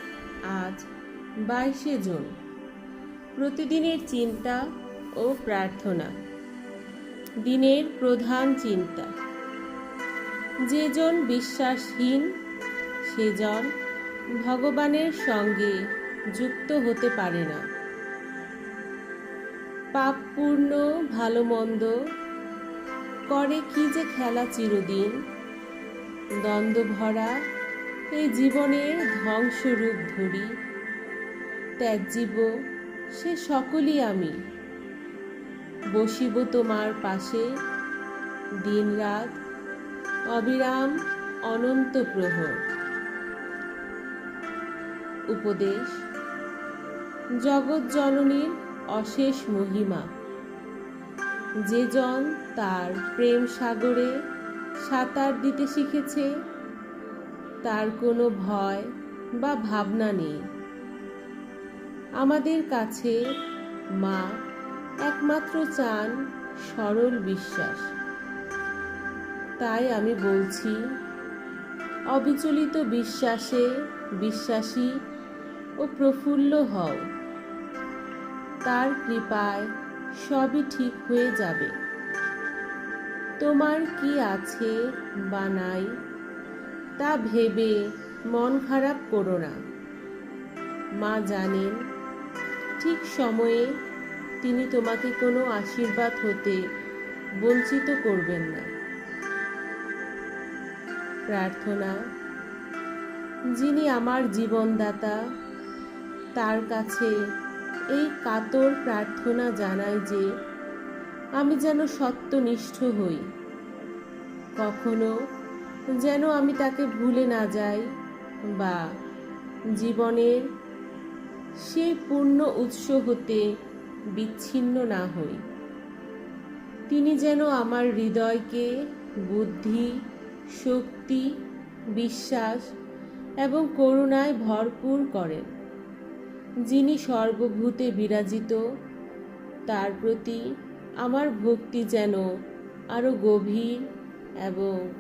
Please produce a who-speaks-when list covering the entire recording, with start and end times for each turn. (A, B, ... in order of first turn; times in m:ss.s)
0:00.5-0:00.9 A
0:01.4-0:02.4 A
0:03.4-0:04.6 A
0:05.2-0:06.2 A
0:07.4-0:09.1 A
0:10.7-0:12.3 A
0:13.1-0:13.7 A
0:14.4-0:15.8 A
0:16.3-0:17.6 A
0:19.9-0:21.9 A
0:23.3-0:25.2 A
0:26.4-0:27.4 A
0:28.1-0:30.5 A
0:31.8-0:32.5 A
0:33.2-0:34.4 A
0:35.9-0:37.5 A
0:38.6-0:39.4 A
0:40.3-0:42.6 A
0:45.3-0:46.0 A
0:47.4-0:50.1 A
0:51.7-0:54.1 A
0:54.8-0:56.3 A
0:57.6-1:00.4 A
1:02.2-1:03.2 A
1:04.0-1:04.3 A
1:05.0-1:07.9 A
1:09.6-1:10.8 A
1:12.1-1:15.0 A
1:15.8-1:17.1 A
1:18.6-1:21.8 A
1:23.4-1:26.0 A
1:27.0-1:29.6 A
1:31.0-1:31.8 A
1:32.8-1:33.8 A
1:34.4-1:36.6 A
1:37.4-1:38.7 A
1:41.3-1:42.0 A
1:43.6-1:45.2 A
1:46.4-1:47.2 A
1:47.9-1:50.3 A
1:51.4-1:53.3 A
1:54.6-1:55.2 A
1:56.0-1:57.9 A
1:58.5-1:58.8 A
1:59.7-2:00.4 A
2:01.6-2:03.5 A
2:04.2-2:05.4 A
2:06.9-2:08.7 A
2:09.2-2:10.0 A
2:10.5-2:11.3 A
2:12.0-2:12.7 A
2:13.4-2:15.5 A
2:16.7-2:18.6 A
2:19.7-2:20.4 A
2:21.0-2:22.3 A
2:22.9-2:23.9 A
2:24.4-2:24.8 A